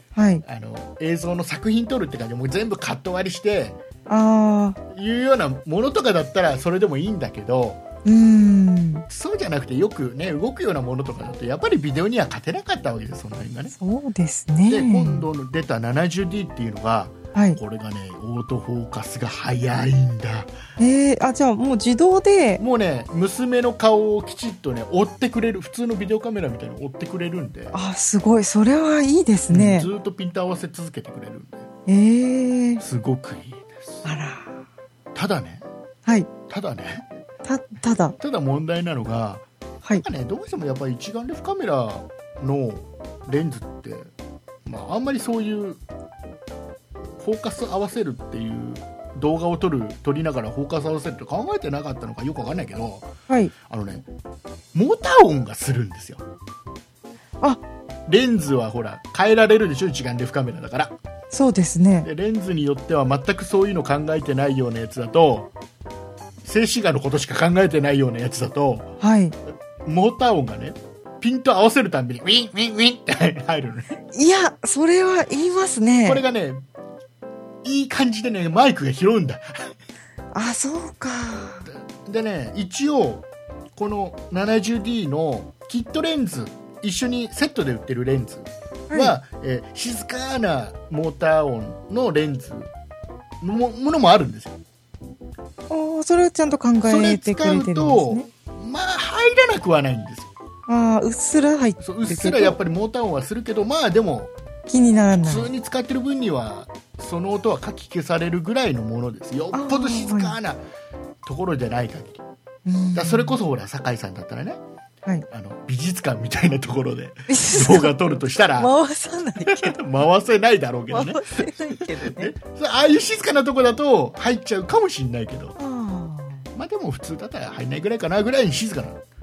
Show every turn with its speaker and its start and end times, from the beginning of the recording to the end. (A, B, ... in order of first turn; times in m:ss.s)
0:00.2-0:00.4 A
0:00.4-0:03.8 B
0:04.1-0:04.8 A
0:04.9-0:07.8 B
0:08.0-0:09.0 A
0:09.1-0:13.7 B
0:13.7-0:15.2 A
0:14.7-0:20.5 B
0:17.3-0:17.6 A
0:20.8-0:22.6 A
0:22.6-0:27.7 B
0:27.7-0:29.9 A
0:29.5-0:31.7 B
0:31.9-0:32.8 A
0:32.8-0:34.0 B
0:34.0-0:34.6 A
0:35.1-0:35.6 B
0:36.5-0:37.1 B
0:37.4-0:38.2 A
0:38.2-0:39.4 B
0:40.0-0:44.1 B
0:44.6-0:45.8 B
0:47.2-0:53.1 B
0:53.7-0:54.0 B
0:54.7-0:56.2 B
0:58.1-1:01.0 B
1:01.3-1:02.1 A
1:02.0-1:05.5 B
1:06.4-1:08.9 B
1:09.0-1:09.4 A
1:09.8-1:13.9 B
1:14.1-1:16.2 A
1:16.0-1:16.6 B
1:17.6-1:19.7 B
1:20.3-1:21.7 A
1:21.7-1:32.7 B
1:28.9-1:29.2 A
1:33.4-1:34.6 B
1:35.7-1:38.2 A
1:36.8-1:40.3 B
1:40.7-1:42.6 A
1:41.8-1:44.3 B
1:44.7-1:45.5 A
1:45.1-1:50.6 B
1:49.5-1:50.4 A
1:51.2-1:52.2 B
1:52.6-1:53.4 A
1:52.9-1:54.6 B
1:55.3-1:58.7 B
1:57.3-1:59.8 A
1:59.4-2:05.6 B
2:00.9-2:02.3 A
2:05.6-2:06.4 A
2:06.5-2:09.0 B